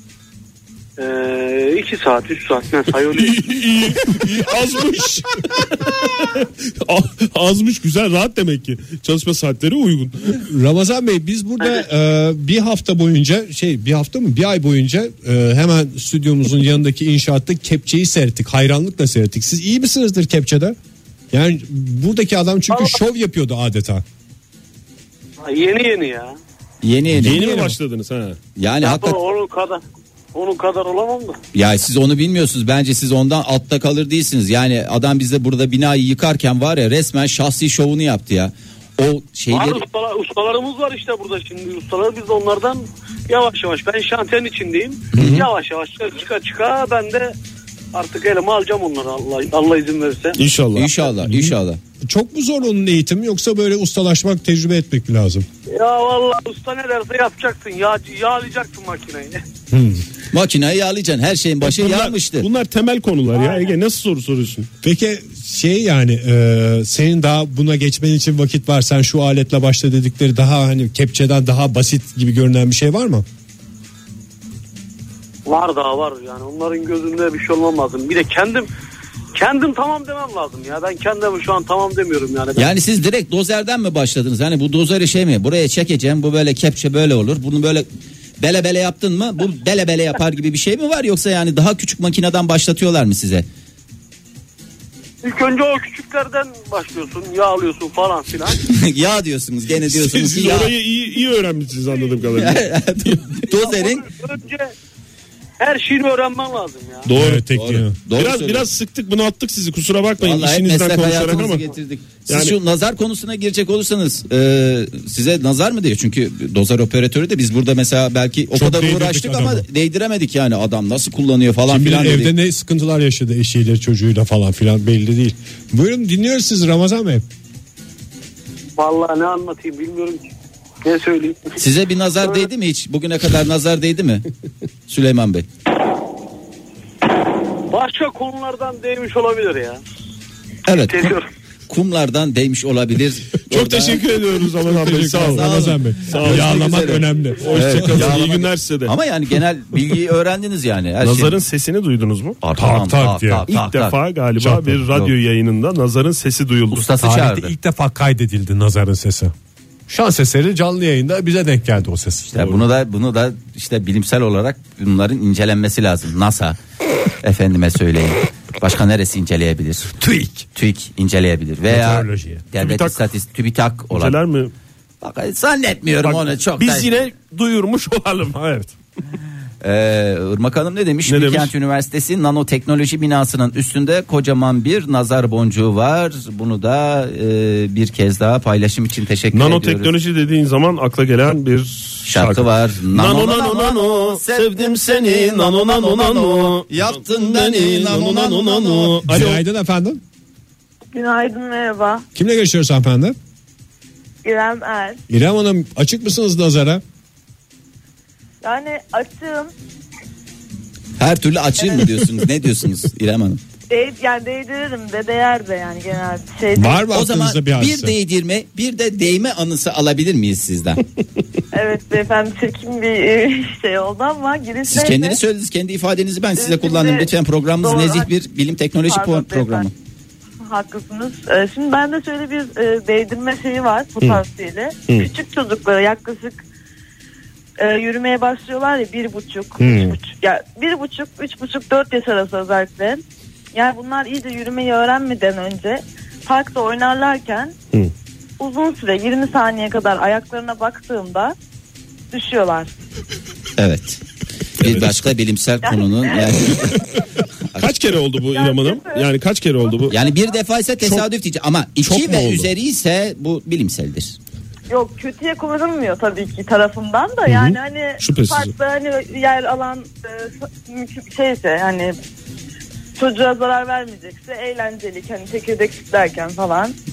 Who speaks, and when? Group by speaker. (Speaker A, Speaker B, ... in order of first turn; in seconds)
Speaker A: 1.0-3.4, 25.4-26.4, 28.8-29.8, 30.4-31.4, 39.5-47.3, 47.9-50.4, 55.7-59.4, 63.4-63.7, 75.5-78.7, 79.3-82.7, 95.2-98.6, 103.5-104.7, 105.6-107.1, 128.8-130.2, 130.8-131.6, 137.7-139.8, 140.8-141.3
Speaker B: 3.1-10.3, 27.2-28.4, 50.4-50.9, 61.6-64.7, 99.9-103.2, 107.1-107.4, 108.1-111.7, 112.3-112.6, 143.5-145.5, 146.1-148.9, 151.0-152.4, 153.5-156.9, 172.6-173.0, 173.9-174.5, 176.0-178.7, 181.1-181.5, 189.3-199.4, 239.6-239.9, 254.6-255.1, 257.6-260.0, 261.8-262.5, 267.3-268.5
Speaker C: 10.4-20.8, 21.3-24.0, 27.1-27.8, 51.3-51.5, 52.1-55.5, 59.7-60.0, 64.8-73.2, 107.2-108.0, 118.5-119.7, 121.7-127.2, 144.8-148.2, 152.6-153.4, 154.4-154.8, 157.0-159.3, 159.9-162.4, 170.0-170.4, 171.7-172.4, 199.1-200.0, 202.2-203.2, 205.1-206.8, 216.5-217.9
Speaker D: 26.8-27.5, 28.6-29.2, 31.5-39.8, 50.8-51.8, 60.3-62.5, 82.6-87.9, 88.4-93.5, 98.7-100.7, 102.4-104.1, 107.5-108.7, 110.2-122.3, 131.6-134.2, 134.9-135.5, 140.7-141.2, 141.7-144.0, 144.9-151.4, 152.4-154.0, 156.7-157.5, 162.3-166.6, 167.2-169.9, 170.6-174.2, 175.0-176.9, 179.6-189.9, 192.1-199.0, 211.0-213.4, 216.9-220.8, 224.7-229.7, 253.6-254.0, 254.6-256.8, 257.5-257.8, 259.9-264.2
Speaker E: 200.9-202.1, 204.2-205.0, 208.4-209.5, 213.7-216.9, 221.5-225.2, 226.4-227.1, 227.6-228.1, 228.9-229.7, 230.5-236.4, 237.6-243.0, 243.5-247.5, 248.4-251.3, 252.1-252.7, 255.6-256.4, 258.3-260.1, 264.7-271.9, 273.0-276.8